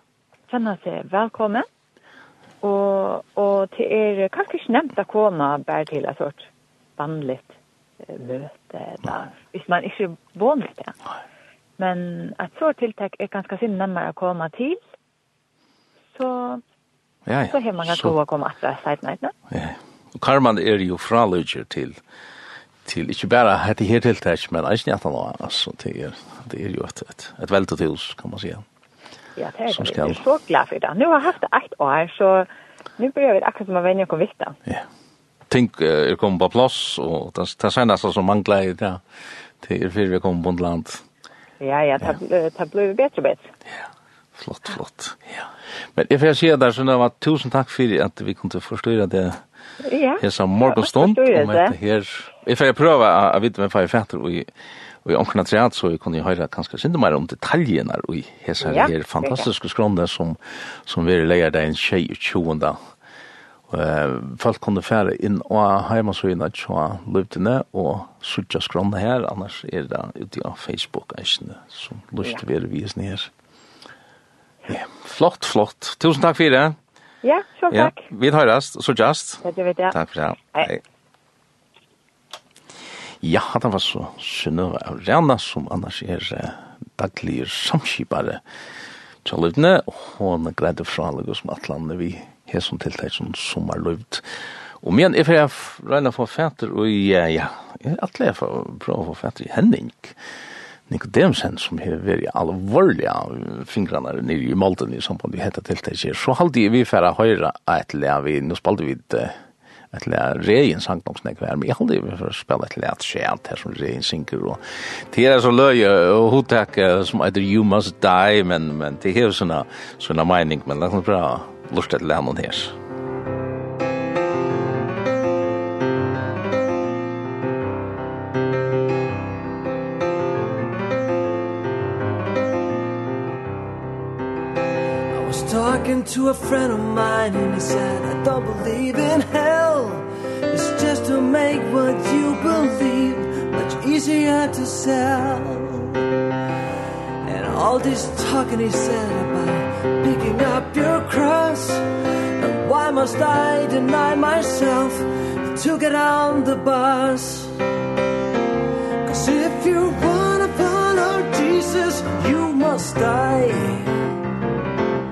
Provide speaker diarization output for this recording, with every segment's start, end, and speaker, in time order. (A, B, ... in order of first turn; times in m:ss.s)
0:00.5-0:01.6 A
0:02.6-0:11.0 A
0:11.8-0:14.8 A
0:16.1-0:16.6 A
0:17.3-0:18.1 B
0:17.5-0:19.3 A
0:19.5-0:22.0 B
0:22.8-0:28.6 B
0:29.4-0:34.6 A
0:29.7-0:30.2 B
0:35.5-0:39.0 B
0:39.6-0:41.0 B
0:41.6-0:43.5 A
0:44.4-0:49.4 B
0:49.8-0:51.8 A
0:50.2-0:54.5 B
0:55.0-1:02.8 B
0:58.6-0:59.5 A
1:03.7-1:13.3 B
1:14.7-1:16.8 B
1:17.2-1:18.0 A
1:17.7-1:20.8 B
1:19.4-1:20.0 A
1:23.2-1:28.4 B
1:29.2-1:34.3 B
1:34.8-1:40.2 B
1:40.9-1:49.4 B
1:49.9-2:02.8 B
2:15.1-2:26.1 C
2:27.2-2:37.6 C
2:39.0-2:44.0 C